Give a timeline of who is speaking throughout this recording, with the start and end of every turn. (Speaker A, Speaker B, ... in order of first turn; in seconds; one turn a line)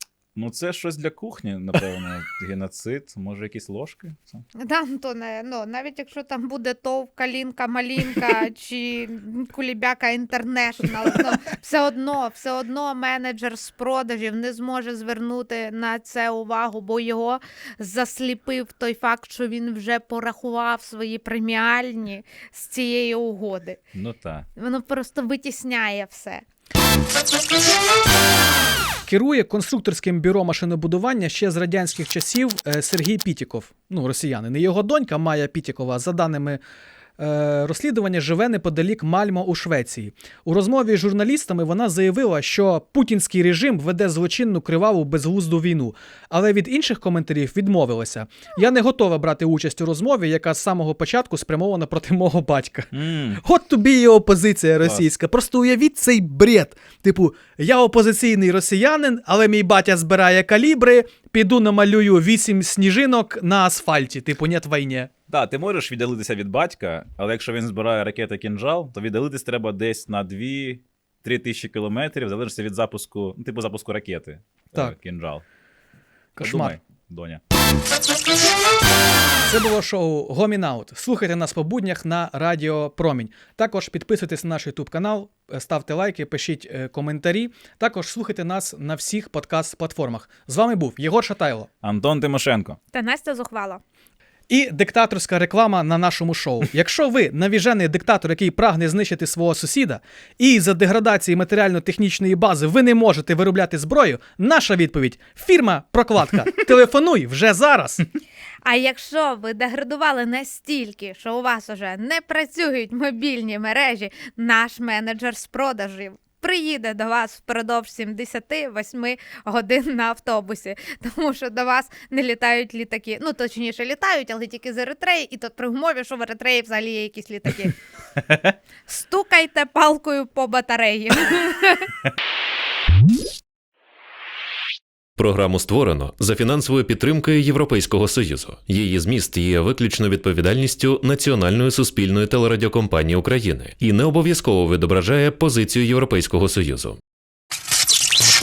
Speaker A: 0.3-4.4
Speaker B: 4.5-23.8
Speaker A: 23.9-24.4
Speaker B: 24.5-26.4
Speaker C: 29.1-36.6
Speaker C: 37.2-65.1
Speaker A: 52.9-53.4
Speaker A: 65.3-75.4
Speaker C: 76.3-76.7
Speaker A: 76.4-77.4
Speaker C: 79.4-91.7
Speaker A: 91.8-92.8
Speaker B: 92.9-93.8
Speaker C: 94.5-108.0
Speaker B: 108.6-127.7
Speaker B: 128.9-131.9
Speaker D: 135.2-147.0